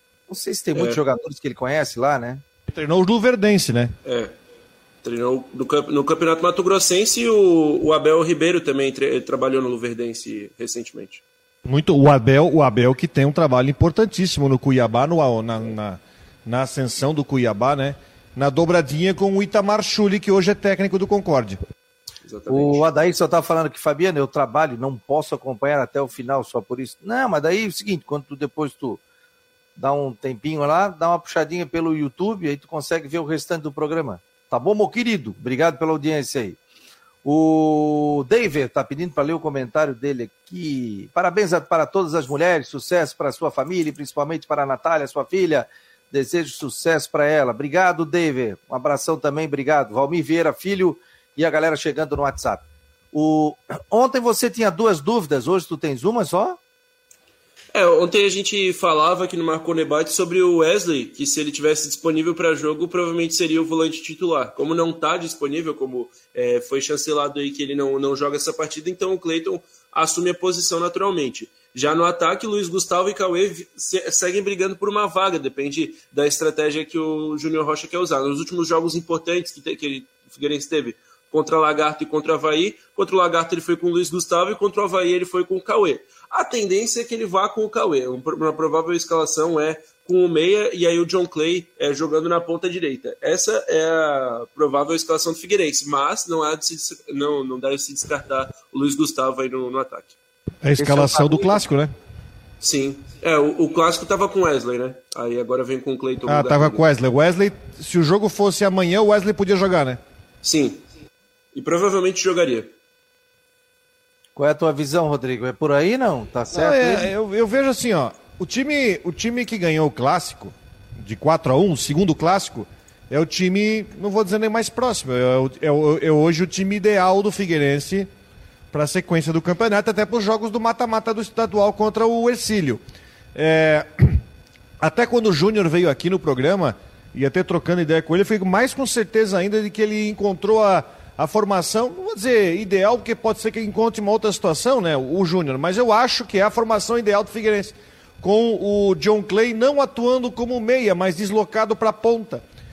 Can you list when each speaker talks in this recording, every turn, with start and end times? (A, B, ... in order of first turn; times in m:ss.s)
0:00.3-0:02.4 A
0:00.8-0:01.0 B
0:02.7-0:03.9 C
0:04.0-0:04.3 B
0:05.0-0:11.2 B
0:11.6-0:21.6 C
0:22.2-0:22.9 B
0:22.5-0:29.0 A
0:29.8-0:36.6 A
0:37.2-0:56.6 A
0:57.7-1:40.2 B
1:40.6-1:41.9 C
1:40.8-1:41.6 A
1:42.6-1:46.9 B
1:46.3-1:50.0 C
1:50.4-1:50.8 B
1:51.5-1:52.7 B
1:54.4-1:57.1 A
1:56.5-2:08.1 C
2:08.7-2:12.8 C
2:13.3-2:14.2 C
2:14.8-2:32.4 C